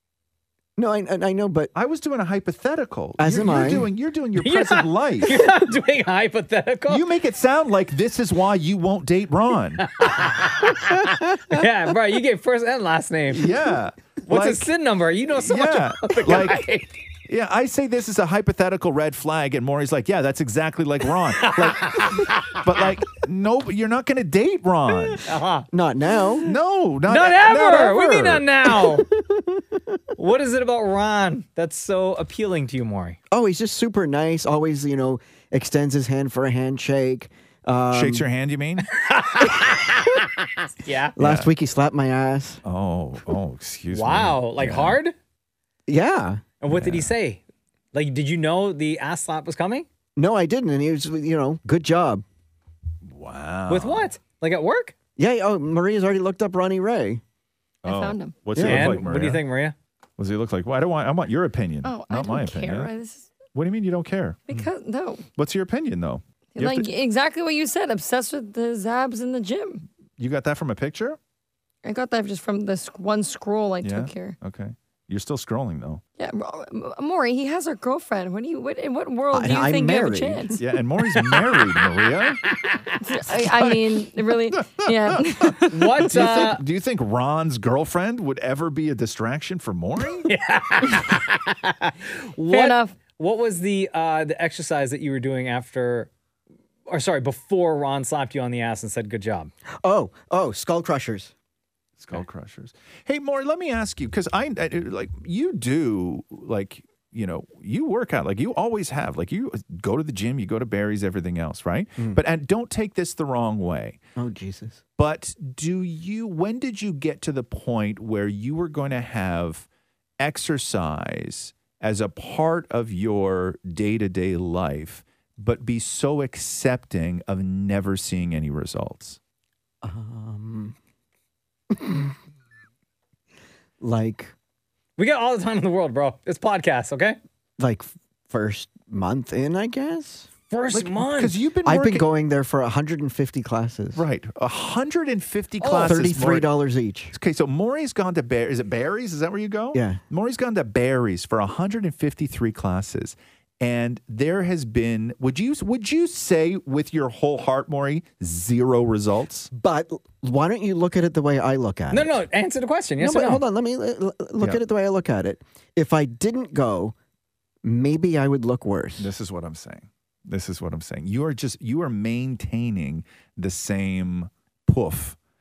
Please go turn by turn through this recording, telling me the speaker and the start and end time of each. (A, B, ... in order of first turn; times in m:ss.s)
0:00.8-0:01.7 A
0:01.7-0:05.4 B
0:03.2-0:03.9 A
0:04.4-0:07.0 C
0:06.9-0:09.9 B
0:09.8-0:13.5 C
0:13.3-0:14.7 B
0:14.2-0:16.9 C
0:15.3-0:16.6 B
0:17.3-0:25.2 B
0:21.4-0:22.6 C
0:25.2-0:25.7 C
0:25.7-0:26.5 A
0:26.4-0:28.4 B
0:27.1-0:29.1 C
0:28.8-0:30.0 A
0:30.2-0:33.2 C
0:33.3-0:38.2 A
0:37.9-0:38.9 B
0:38.9-0:40.1 C
0:40.8-0:41.1 C
0:41.2-0:42.6 A
0:41.2-0:41.5 B
0:42.6-0:45.0 B
0:43.9-0:45.1 C
0:45.9-0:46.4 A
0:46.6-0:47.4 C
0:46.7-0:47.1 B
0:47.9-0:49.9 C
0:50.2-0:52.2 A
0:53.0-0:54.1 B
0:53.7-0:54.9 C
0:55.2-0:57.2 A
0:57.8-0:59.4 B
0:57.8-0:58.4 D
0:58.5-0:59.0 A
0:58.6-0:59.7 C
1:00.2-1:02.9 B
1:01.8-1:03.3 D
1:03.5-1:04.7 B
1:04.5-1:05.2 D
1:05.4-1:06.9 B
1:06.5-1:09.8 D
1:10.2-1:11.2 B
1:11.8-1:14.4 D
1:13.8-1:16.0 B
1:16.2-1:20.6 D
1:19.3-1:20.6 A
1:20.6-1:22.4 B
1:23.0-1:26.0 D
1:23.3-1:30.3 B
1:25.7-1:26.6 C
1:30.2-1:36.1 C
1:32.5-1:33.0 D
1:36.9-1:39.5 C
1:39.8-1:41.3 A
1:42.0-1:54.0 B
1:54.2-1:54.8 A
1:55.0-1:59.7 B
2:00.2-2:09.2 B
2:09.8-2:10.8 A
2:11.7-2:12.1 A
2:13.8-2:14.3 A
2:15.0-2:17.2 C
2:17.6-2:20.3 A
2:20.5-2:21.4 C
2:20.7-2:22.0 B
2:21.6-2:24.0 A
2:23.9-2:26.5 B
2:25.6-2:25.9 C
2:25.8-2:27.1 A
2:27.1-2:39.5 B
2:29.7-2:30.0 A
2:39.5-2:42.2 A
2:41.9-2:43.4 C
2:43.0-2:46.9 A
2:47.6-2:49.1 A
2:49.0-2:55.2 B